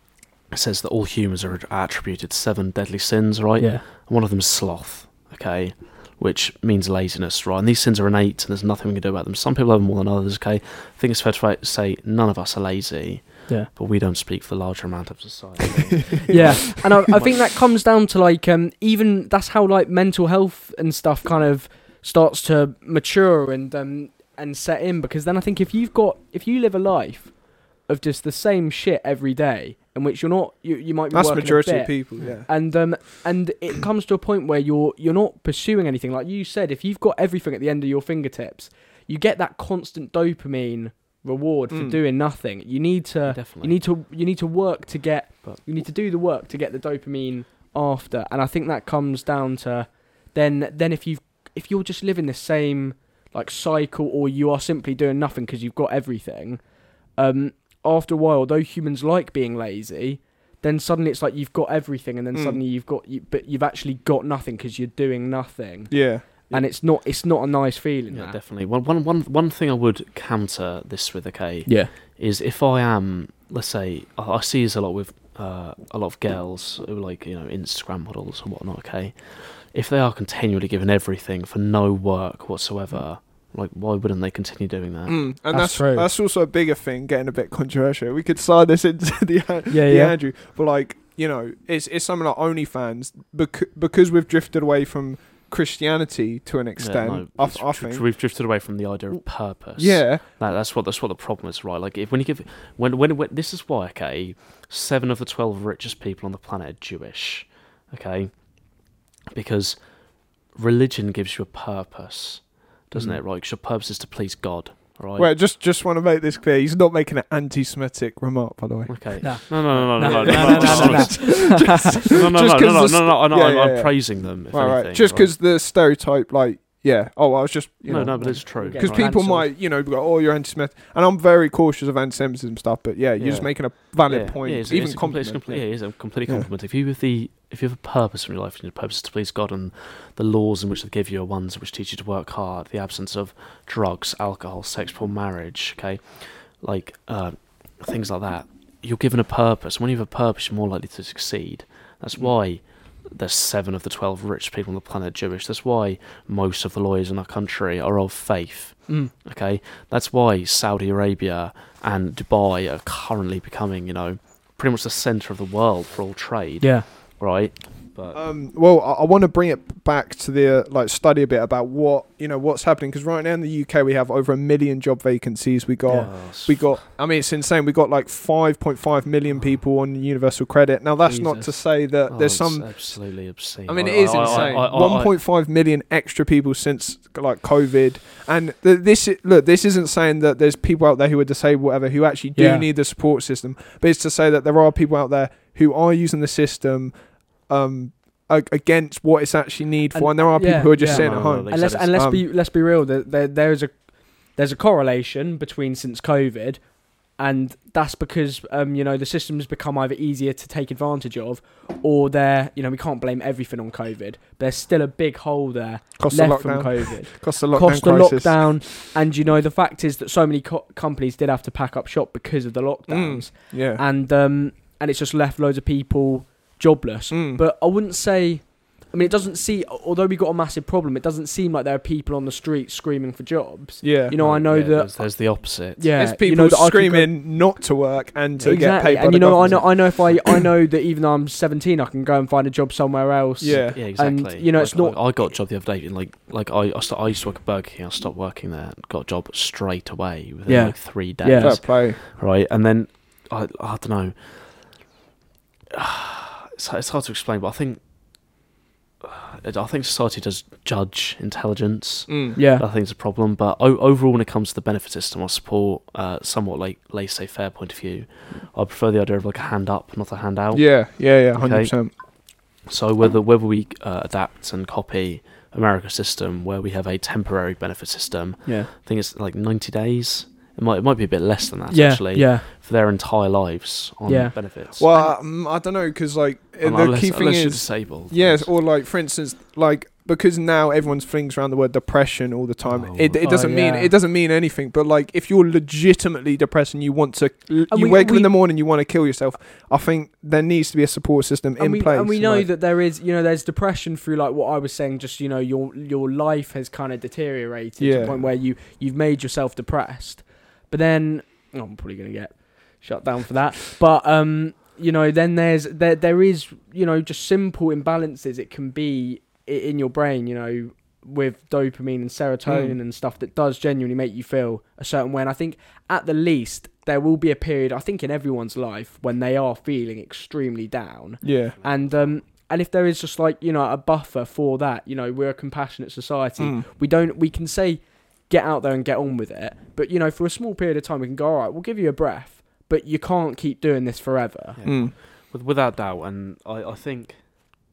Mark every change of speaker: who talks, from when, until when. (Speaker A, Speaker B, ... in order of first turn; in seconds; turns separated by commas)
Speaker A: 0.5-17.3, Speaker B: 3.6-3.8, Speaker B: 16.3-68.4, Speaker C: 31.1-32.8, Speaker A: 32.2-32.4, Speaker C: 41.7-42.0, Speaker A: 43.2-43.8, Speaker A: 45.4-45.8, Speaker C: 62.3-62.6, Speaker C: 65.9-66.6, Speaker A: 68.1-85.2, Speaker B: 71.7-71.9, Speaker C: 85.1-98.1, Speaker B: 85.5-86.1, Speaker B: 89.7-90.2, Speaker A: 96.8-115.3, Speaker C: 99.8-100.2, Speaker C: 112.9-113.2, Speaker C: 115.2-136.5, Speaker A: 118.9-125.3, Speaker B: 119.2-122.0, Speaker A: 127.9-129.4, Speaker B: 128.6-129.5, Speaker A: 133.2-168.2, Speaker B: 166.6-166.8, Speaker C: 168.1-202.2, Speaker A: 175.9-176.8, Speaker B: 181.0-181.6, Speaker A: 182.1-185.2, Speaker B: 184.2-184.6, Speaker B: 192.3-192.7, Speaker B: 199.9-237.1, Speaker A: 200.8-202.0, Speaker C: 216.0-218.6, Speaker C: 222.9-223.8, Speaker C: 227.1-227.4, Speaker C: 233.8-234.1, Speaker A: 234.1-235.9, Speaker C: 235.9-240.3, Speaker A: 238.3-238.8, Speaker B: 238.4-245.2, Speaker A: 239.4-239.7, Speaker C: 243.4-243.8, Speaker A: 243.4-254.9, Speaker B: 250.5-251.6, Speaker C: 251.3-252.0, Speaker A: 255.7-258.4, Speaker A: 259.0-284.9, Speaker C: 262.1-262.4, Speaker B: 262.4-262.6, Speaker C: 270.5-271.9, Speaker B: 278.4-278.7, Speaker B: 281.7-282.5, Speaker B: 284.1-285.1, Speaker C: 284.8-302.5, Speaker A: 286.6-288.5, Speaker A: 292.6-293.2, Speaker B: 293.2-293.9, Speaker B: 297.7-298.3, Speaker B: 301.6-344.6, Speaker C: 307.8-308.2, Speaker C: 322.4-322.8, Speaker C: 331.2-331.6, Speaker A: 331.6-332.2, Speaker C: 336.4-336.6, Speaker A: 344.6-347.2, Speaker C: 344.6-344.9